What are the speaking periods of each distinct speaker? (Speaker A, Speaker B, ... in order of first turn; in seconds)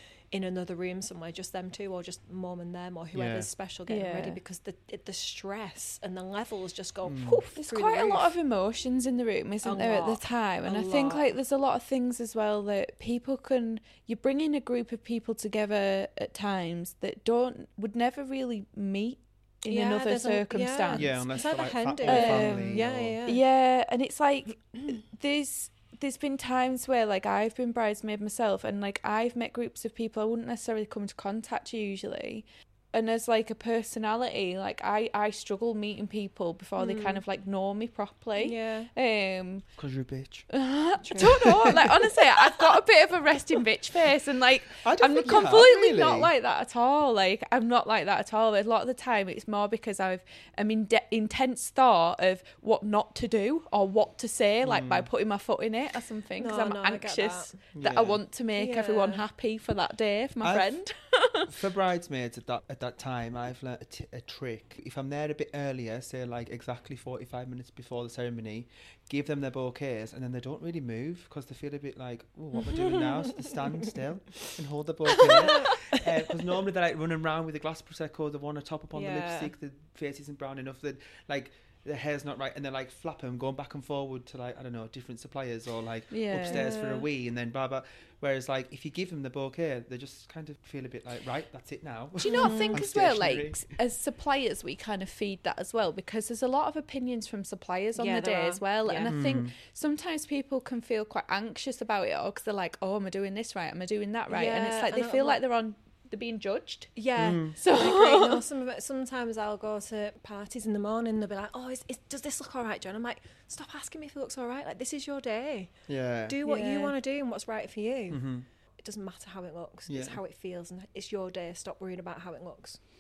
Speaker A: 0.3-8.3, 9.6-11.3, 19.7-23.4, 36.8-37.2, 38.4-38.9, 41.0-42.0, 56.4-57.6, 58.6-59.2, 72.7-73.9, 75.1-76.0, 78.9-79.5, 86.4-87.1, 92.2-92.8, 98.0-99.2, 104.3-105.4, 107.0-115.7, 116.3-118.3, 118.8-122.8
Speaker B: 3.1-3.5, 7.0-7.5, 20.9-23.2, 39.8-40.5, 41.2-41.8, 44.8-46.3, 54.6-55.1, 57.8-58.2, 60.4-60.7, 61.5-93.7, 99.1-99.5, 107.2-107.5, 115.9-116.4, 118.1-118.5, 119.9-120.2
Speaker C: 3.9-4.4, 7.6-21.2, 22.0-39.7, 40.5-61.5, 86.1-86.7, 92.2-107.0, 107.6-108.4, 116.5-117.0